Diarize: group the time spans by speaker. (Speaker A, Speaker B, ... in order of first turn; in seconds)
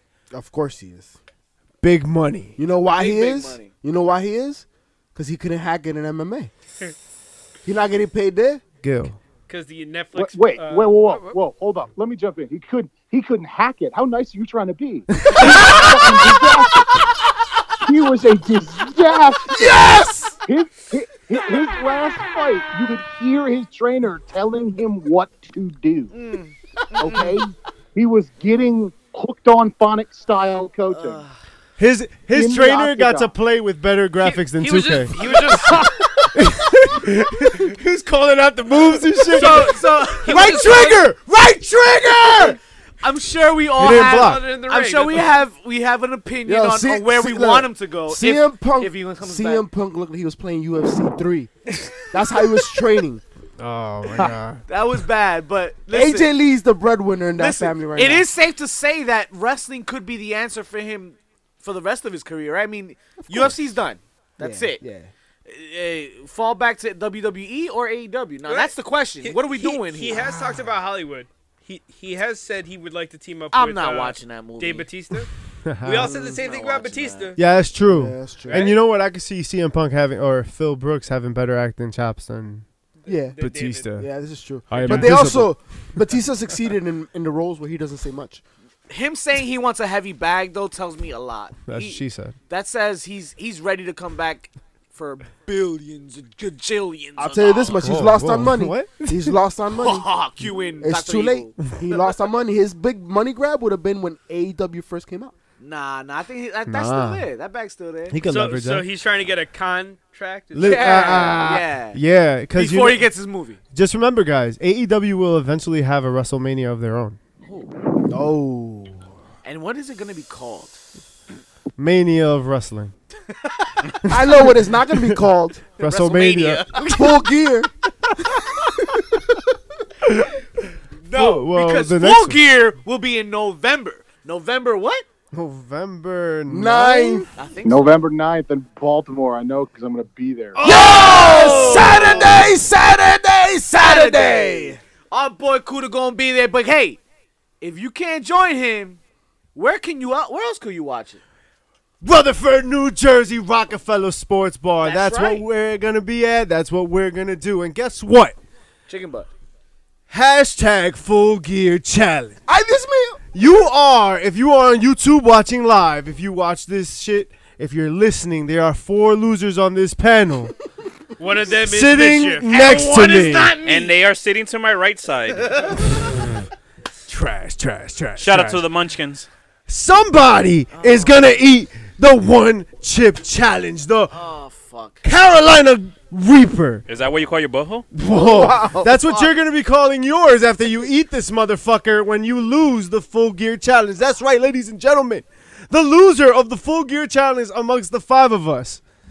Speaker A: 0.3-1.2, 2.6-6.5, 7.7-8.6, 19.5-20.4, 46.5-53.2, 55.9-58.3, 63.2-63.6, 64.4-65.1, 76.0-76.4, 77.9-78.7, 83.1-83.4, 84.0-88.4, 97.2-100.1, 100.8-105.3, 118.1-119.0, 124.1-125.6, 126.8-127.7, 136.5-137.3, 140.6-144.8, 162.5-163.2, 188.1-189.0
Speaker B: 1.8-2.6, 8.8-9.2, 15.2-15.7, 31.8-35.7, 36.4-42.6, 43.8-44.5, 53.6-54.6, 75.6-76.2, 77.4-82.7, 83.4-84.1, 84.7-85.6, 91.7-92.3, 97.8-99.4, 106.7-107.3, 108.1-108.9, 110.5-113.1, 113.7-117.2, 121.8-122.9, 124.0-126.8, 130.0-130.3, 131.1-132.4, 135.3-137.3, 141.2-142.1, 152.0-158.4, 160.1-162.4, 163.3-170.6, 171.5-173.6, 175.9-176.5, 177.1-178.7, 179.7-184.2, 185.0-186.8, 187.9-198.8
Speaker C: 2.9-3.7, 26.1-27.4, 30.9-31.4, 35.5-35.8, 39.3-40.8, 42.3-49.7, 51.8-52.6, 54.7-56.3, 57.4-64.8, 65.5-70.3, 73.5-74.9, 76.3-77.3, 88.9-98.1, 99.7-101.6, 105.6-108.2, 110.6-112.0, 112.5-113.6, 117.4-117.7, 119.5-120.8, 123.3-123.9, 125.8-127.1, 131.0-135.1, 137.4-138.1, 140.6-142.4, 143.8-147.0, 147.6-149.0, 149.6-151.2, 154.8-155.5, 158.9-159.3, 172.5-174.0, 175.4-175.8, 180.7-181.2, 184.1-185.1, 189.0-189.3
Speaker D: 9.5-11.4, 34.2-36.3, 39.3-41.1, 43.8-45.4, 68.5-75.3, 75.8-77.4, 78.5-78.8, 83.1-84.0, 84.7-85.2, 108.2-111.2, 171.2-172.6
Speaker E: 10.2-16.9, 17.8-19.6, 20.5-26.1, 27.0-31.2, 32.3-33.3, 137.7-140.6
Speaker F: 173.6-175.7, 178.2-179.3, 186.9-187.9